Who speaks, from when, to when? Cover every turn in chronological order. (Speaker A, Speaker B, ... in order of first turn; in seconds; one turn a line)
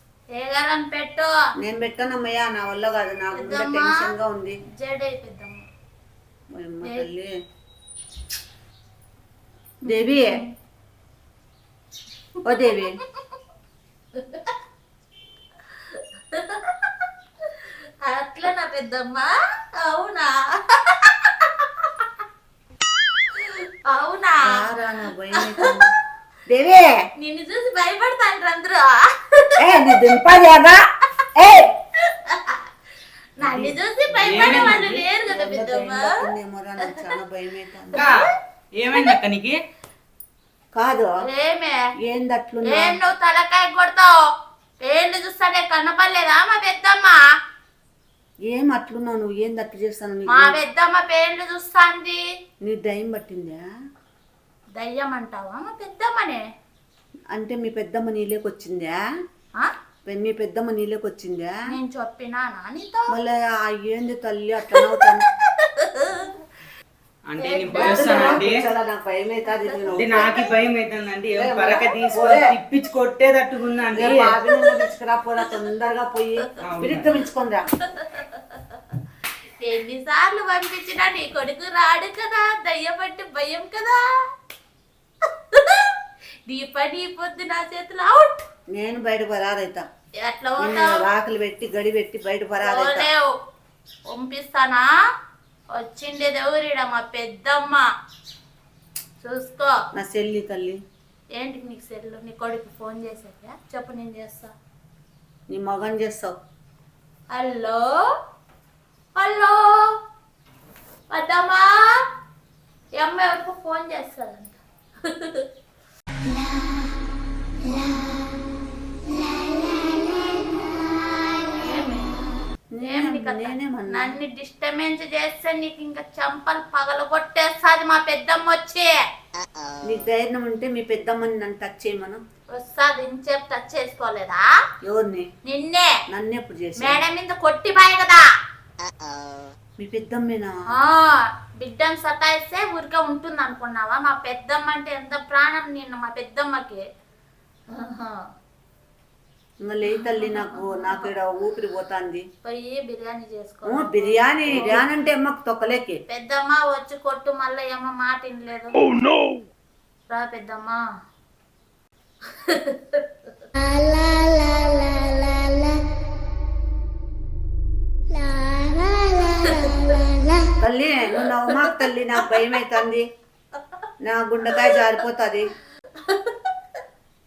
Speaker A: 0.3-1.3
Speaker B: 1.6-4.6
Speaker A: 3.4-4.1
Speaker A: 4.8-5.6
Speaker B: 6.6-7.3
Speaker A: 9.9-10.5
Speaker B: 9.9-10.3
Speaker B: 12.4-13.0
Speaker A: 14.1-14.6
Speaker A: 15.8-17.1
Speaker A: 18.0-22.1
Speaker A: 23.4-24.6
Speaker B: 24.5-25.9
Speaker A: 25.4-25.7
Speaker B: 26.5-26.9
Speaker A: 27.2-30.0
Speaker B: 29.6-30.8
Speaker B: 31.4-31.7
Speaker A: 32.1-32.6
Speaker A: 33.4-36.1
Speaker B: 33.4-38.0
Speaker C: 34.2-35.0
Speaker C: 38.0-38.2
Speaker C: 38.8-39.6
Speaker A: 38.9-39.2
Speaker B: 40.7-41.1
Speaker A: 41.2-41.8
Speaker B: 42.1-43.0
Speaker A: 42.7-44.1
Speaker A: 44.8-47.2
Speaker B: 48.5-50.5
Speaker A: 50.3-52.2
Speaker B: 52.6-53.6
Speaker A: 54.8-56.4
Speaker B: 57.3-59.0
Speaker B: 60.1-61.5
Speaker A: 61.7-63.1
Speaker B: 63.1-65.2
Speaker A: 64.7-66.4
Speaker C: 67.3-68.6
Speaker A: 67.4-68.6
Speaker B: 67.8-70.4
Speaker A: 69.6-70.5
Speaker C: 69.9-74.3
Speaker B: 71.4-72.5
Speaker A: 71.7-72.1
Speaker B: 73.9-77.7
Speaker C: 76.6-77.1
Speaker A: 77.8-78.8
Speaker A: 79.6-84.0
Speaker A: 85.5-85.9
Speaker A: 86.5-88.4
Speaker B: 88.8-89.8
Speaker A: 90.2-91.0
Speaker B: 90.6-93.1
Speaker A: 92.6-93.3
Speaker A: 94.1-94.8
Speaker A: 95.8-97.8
Speaker A: 99.2-99.7
Speaker B: 100.0-100.8
Speaker A: 101.4-104.5
Speaker B: 105.5-106.3
Speaker A: 107.3-107.8
Speaker A: 109.2-109.8
Speaker A: 111.1-111.7
Speaker A: 113.0-115.5
Speaker A: 117.7-118.0
Speaker A: 119.2-119.5
Speaker A: 121.5-122.2
Speaker B: 122.8-124.1
Speaker A: 122.8-128.9
Speaker B: 129.9-132.2
Speaker A: 132.6-134.4
Speaker B: 134.8-135.3
Speaker A: 135.5-135.9
Speaker B: 136.1-137.0
Speaker A: 136.8-138.2
Speaker B: 139.8-140.5
Speaker A: 140.8-146.8
Speaker A: 147.7-148.2
Speaker B: 149.7-152.2
Speaker A: 149.9-151.1
Speaker A: 152.4-154.8
Speaker B: 153.7-156.0
Speaker A: 156.1-158.9
Speaker A: 160.1-160.8
Speaker A: 162.3-163.5
Speaker A: 169.2-170.1
Speaker B: 170.6-173.1
Speaker A: 171.2-172.5
Speaker B: 174.0-175.5
Speaker A: 174.5-174.8
Speaker A: 176.0-176.5